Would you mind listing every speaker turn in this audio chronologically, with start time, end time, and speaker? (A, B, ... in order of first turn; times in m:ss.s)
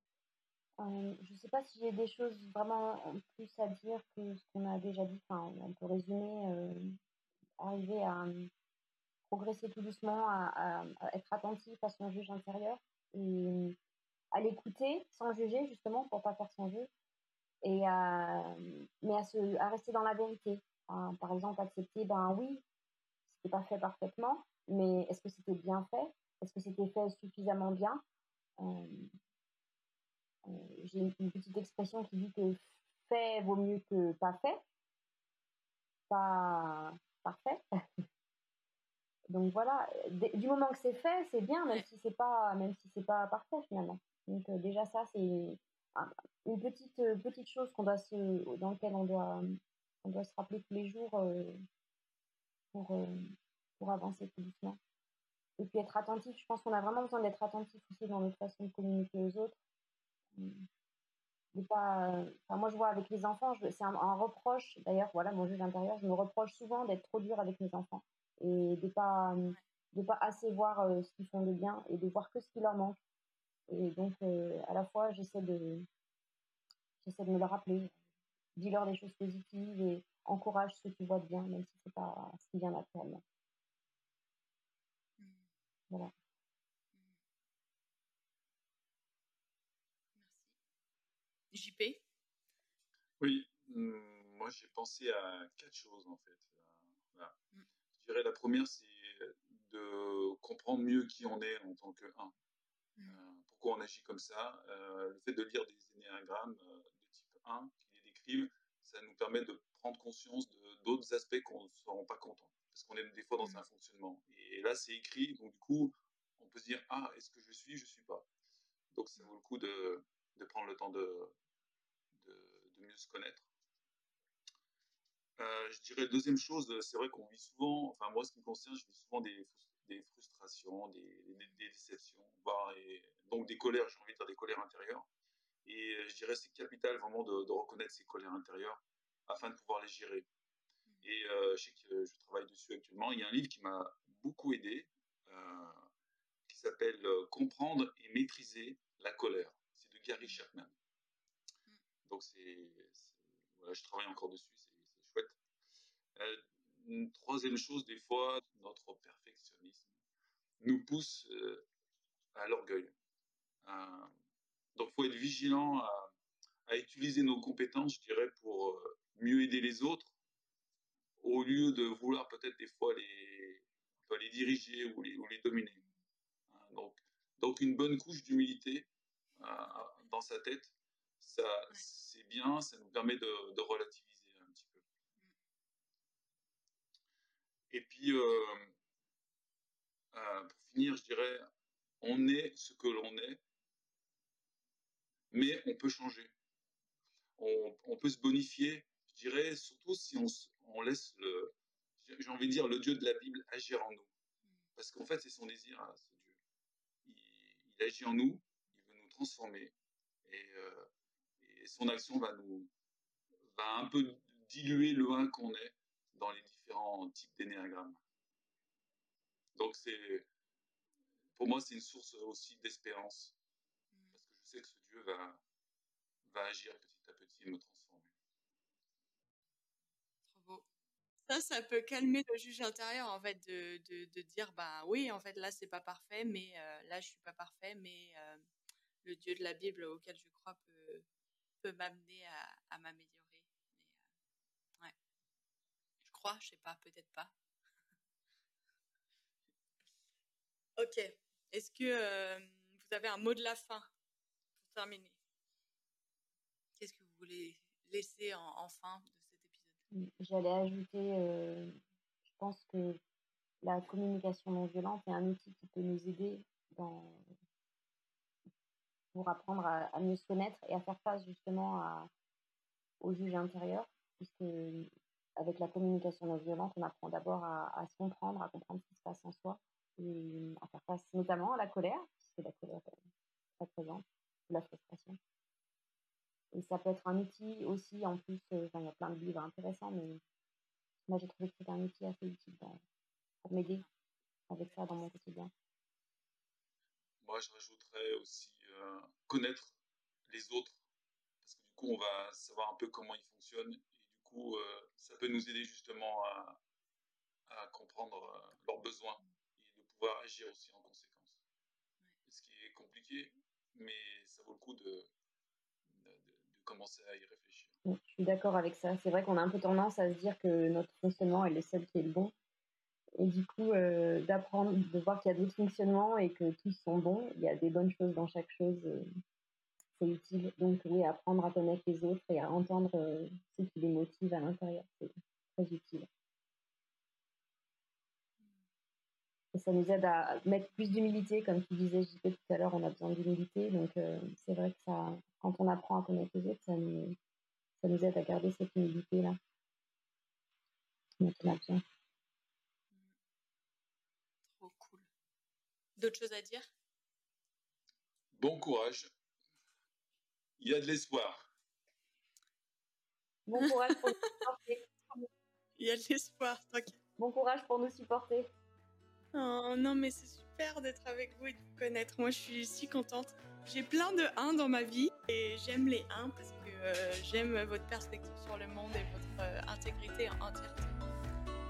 0:00.8-0:07.0 A
0:07.6-0:08.5 A
0:09.3-0:13.8 A
0:14.3-0:16.9 A
0:17.6-0:22.6 A
0:23.3-0:28.0 A
0:28.6-0:29.1 A
0:30.4-0:34.6 A
0:36.1-0:37.6 A
0:39.3-0:51.6 A
0:52.7-0:54.8 A
0:55.6-0:59.6 A
1:00.3-1:00.7 A
1:01.5-1:13.0 A
1:13.7-1:15.9 A
1:17.0-1:17.9 A
1:18.6-1:23.2 A
1:25.2-1:25.5 B
1:30.1-1:30.5 B
1:31.5-1:32.0 B
1:33.2-1:37.4 C
1:38.0-1:42.3 C
1:43.0-1:58.3 C
1:58.9-2:01.3 C
2:02.1-2:03.5 C
2:05.4-2:15.1 C
2:11.4-2:11.7 B
2:15.6-2:20.3 C
2:21.0-2:25.8 C
2:26.5-2:30.7 C
2:32.0-2:35.4 C
2:36.2-2:39.9 C
2:40.6-2:41.6 C
2:42.3-2:42.9 C
2:43.6-2:44.1 C
2:44.8-2:46.1 C
2:46.7-2:50.1 C
2:51.2-2:55.8 C
2:56.5-3:04.8 C
3:07.7-3:08.7 C
3:10.1-3:11.4 C
3:12.0-3:13.4 C
3:15.3-3:16.3 C
3:17.4-3:24.1 C
3:24.8-3:26.3 C
3:27.0-3:29.7 C
3:30.2-3:30.8 C
3:31.4-3:32.7 C
3:33.5-3:38.0 C
3:39.5-3:40.2 C
3:41.4-3:43.4 C
3:44.1-3:45.4 C
3:46.2-3:48.1 C
3:50.3-3:50.6 B
3:51.3-3:58.4 B
3:59.0-4:01.0 B
4:01.6-4:04.0 B
4:06.0-4:07.3 B
4:10.8-4:13.9 B
4:14.6-4:15.2 B
4:16.8-4:19.8 B
4:19.9-4:23.0 A
4:23.6-4:27.2 A
4:29.1-4:32.1 A
4:33.0-4:43.0 A
4:43.6-4:45.2 A
4:46.5-4:50.2 A
4:51.1-4:52.8 A
4:53.4-4:53.8 A
4:54.5-4:55.5 A
4:57.2-4:59.8 C
5:00.3-5:00.8 C
5:01.4-5:06.6 C
5:07.5-5:11.4 C
5:12.2-5:15.1 C
5:15.9-5:17.7 C
5:17.8-5:22.3 A
5:23.2-5:29.1 A
5:30.0-5:36.1 A
5:39.5-5:47.2 A
5:47.8-5:49.4 A
5:51.2-5:51.8 A
5:54.5-5:55.1 B
5:56.0-5:56.6 B
5:58.3-5:59.1 C
6:00.6-6:01.5 C
6:03.5-6:05.2 A
6:05.8-6:07.0 B
6:07.2-6:08.5 A
6:09.3-6:21.0 B